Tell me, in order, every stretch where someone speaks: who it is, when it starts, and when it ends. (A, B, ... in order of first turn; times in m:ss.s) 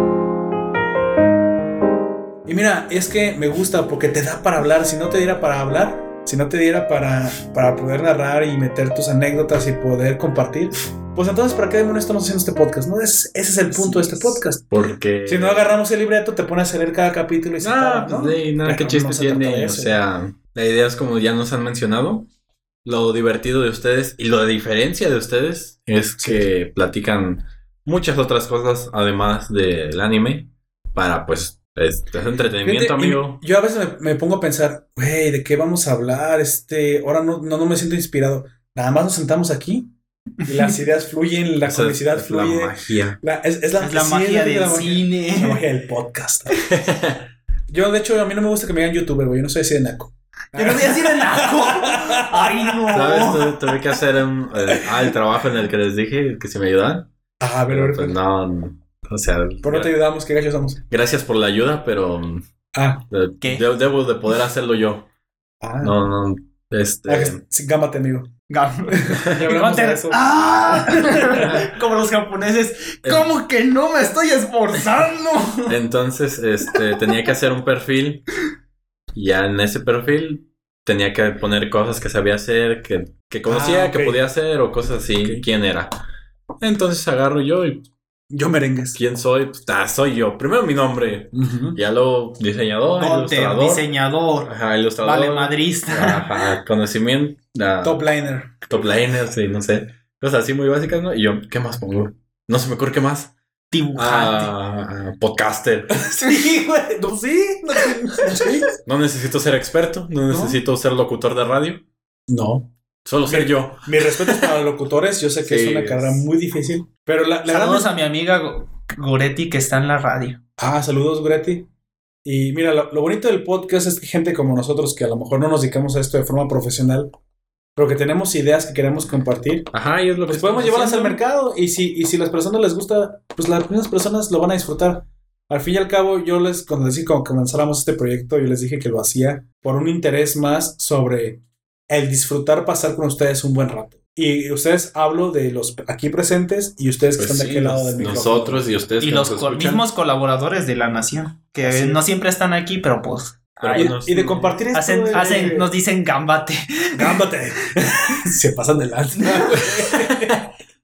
0:02.4-0:14.7 A
0:13.7-0:14.4 B
0:14.7-0:15.7 C
0:15.2-0:20.0 A
0:17.6-0:22.3 C
0:22.8-0:33.4 C
0:26.2-0:26.5 A
0:32.6-0:39.9 A
0:40.4-0:46.7 A
0:40.5-0:40.7 B
0:41.6-0:43.2 C
0:43.8-0:45.6 B
0:46.6-0:47.3 C
0:47.7-0:52.9 A
0:50.5-0:53.6 B
0:52.9-0:57.1 C
0:57.4-0:58.2 A
0:57.7-0:59.9 C
0:59.6-1:00.8 A
1:00.9-1:02.4 C
1:02.7-1:03.0 A
1:03.1-1:05.1 C
1:05.6-1:06.0 A
1:05.8-1:07.4 C
1:07.1-1:08.3 A
1:08.5-1:15.8 B
1:08.9-1:11.5 A
1:11.4-1:11.7 C
1:15.7-1:18.3 C
1:19.1-1:25.9 C
1:23.4-1:24.2 A
1:26.6-1:27.8 C
1:28.3-1:29.0 A
1:28.9-1:33.9 C
1:31.3-1:31.8 A
1:32.9-1:36.3 B
1:34.4-1:38.0 C
1:37.8-1:38.5 A
1:38.6-1:43.3 C
1:43.7-1:44.5 B
1:43.9-1:46.0 C
1:45.9-1:48.6 A
1:48.2-1:48.6 B
1:48.4-1:51.8 C
1:52.3-1:52.7 A
1:53.0-1:54.3 C
1:53.2-1:57.9 A
1:55.4-1:56.2 C
1:57.4-2:00.4 B
2:00.6-2:01.7 A
2:02.2-2:07.1 A
2:07.8-2:09.7 A
2:09.7-2:11.2 C
2:10.3-2:28.6 A
2:27.2-2:29.8 C
2:29.0-2:33.9 B
2:31.6-2:32.0 A
2:33.6-2:34.6 C
2:33.7-2:35.7 A
2:34.7-2:37.2 B
2:35.1-2:35.6 C
2:36.9-2:40.4 A
2:39.6-2:40.4 C